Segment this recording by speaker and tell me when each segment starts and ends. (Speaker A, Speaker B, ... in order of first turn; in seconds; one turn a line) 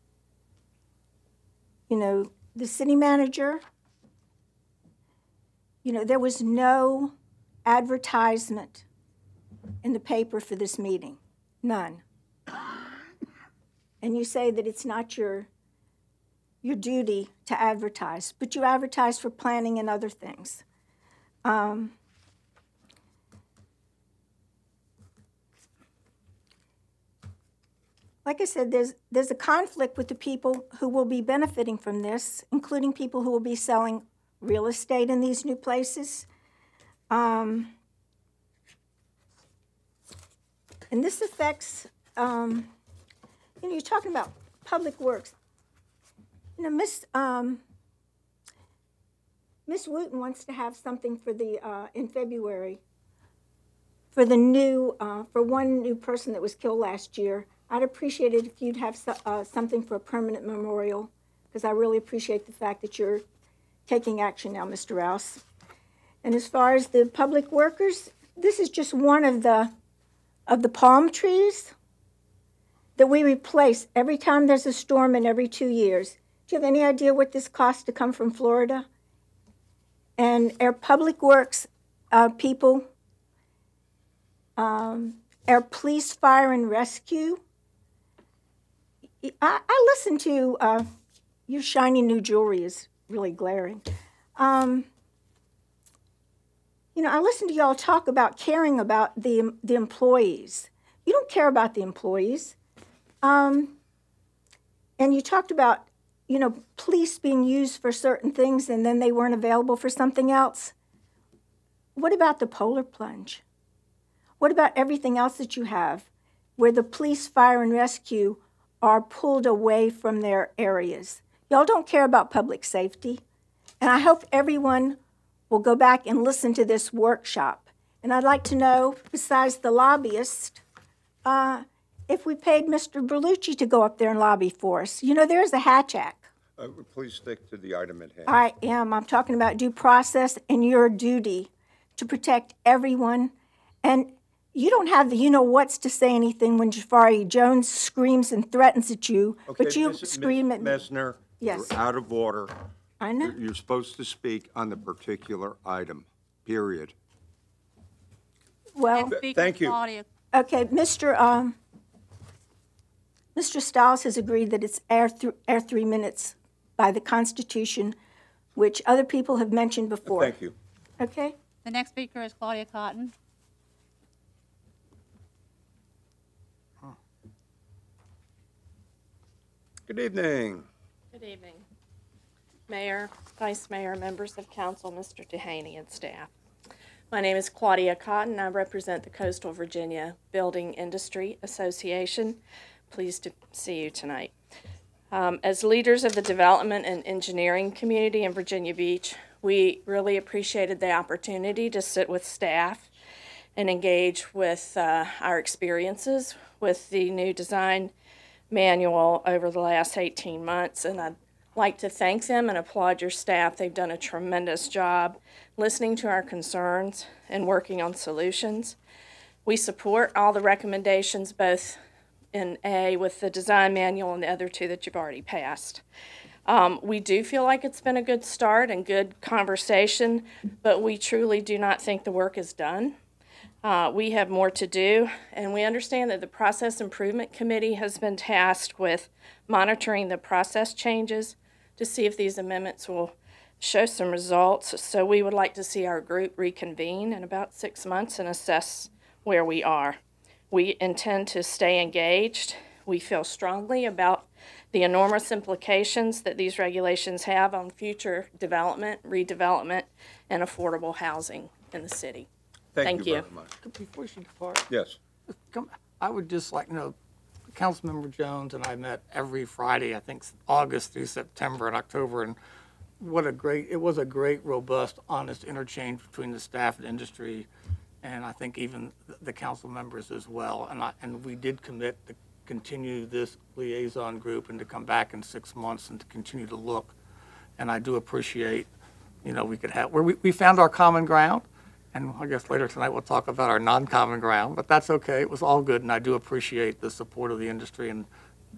Speaker A: 1.9-3.6
Speaker A: 5.8-7.1
Speaker A: 7.7-8.8
Speaker A: 9.8-12.0
Speaker A: 14.0-15.5
Speaker A: 16.6-20.6
Speaker A: 21.4-21.9
Speaker A: 28.2-36.3
Speaker A: 37.1-37.7
Speaker A: 40.9-42.7
Speaker A: 43.6-45.3
Speaker A: 46.6-47.6
Speaker A: 49.7-52.8
Speaker A: 54.1-63.2
Speaker A: 63.9-65.4
Speaker A: 66.2-69.7
Speaker A: 70.5-71.7
Speaker A: 73.0-78.8
Speaker A: 80.2-82.9
Speaker A: 84.6-87.4
Speaker A: 89.2-90.9
Speaker A: 91.5-93.8
Speaker A: 94.4-94.9
Speaker A: 97.0-102.5
Speaker A: 103.2-103.8
Speaker A: 105.0-110.7
Speaker A: 112.0-113.4
Speaker A: 114.4-116.1
Speaker A: 116.6-123.2
Speaker A: 123.8-125.0
Speaker A: 125.5-130.6
Speaker A: 131.3-136.3
Speaker B: 136.6-138.3
Speaker A: 138.3-143.3
Speaker A: 143.8-150.8
Speaker B: 149.5-152.5
Speaker A: 151.4-151.7
Speaker A: 153.0-153.3
Speaker B: 153.2-156.9
Speaker A: 158.8-159.1
Speaker C: 158.9-160.1
Speaker B: 159.1-159.8
Speaker A: 160.3-161.6
Speaker A: 163.4-167.9
Speaker A: 168.6-170.3
Speaker B: 170.1-170.5
Speaker A: 171.0-171.3
Speaker C: 171.7-173.1
Speaker B: 179.9-180.7
Speaker D: 181.1-181.6
Speaker D: 182.7-186.3
Speaker D: 187.1-192.4
Speaker D: 192.9-194.3
Speaker D: 195.1-202.9
Speaker D: 203.6-207.9
Speaker D: 208.5-218.8
Speaker D: 219.4-221.8
Speaker D: 222.3-225.8
Speaker D: 226.5-233.0
Speaker D: 233.6-250.0
Speaker D: 250.5-262.3
Speaker B: 262.8-263.6
Speaker D: 262.8-263.3
Speaker E: 263.6-264.7
Speaker B: 264.7-265.0
Speaker E: 265.5-266.9
Speaker E: 267.5-272.4
Speaker E: 273.0-277.5
Speaker E: 278.0-287.0
Speaker E: 287.6-288.7
Speaker E: 289.2-298.1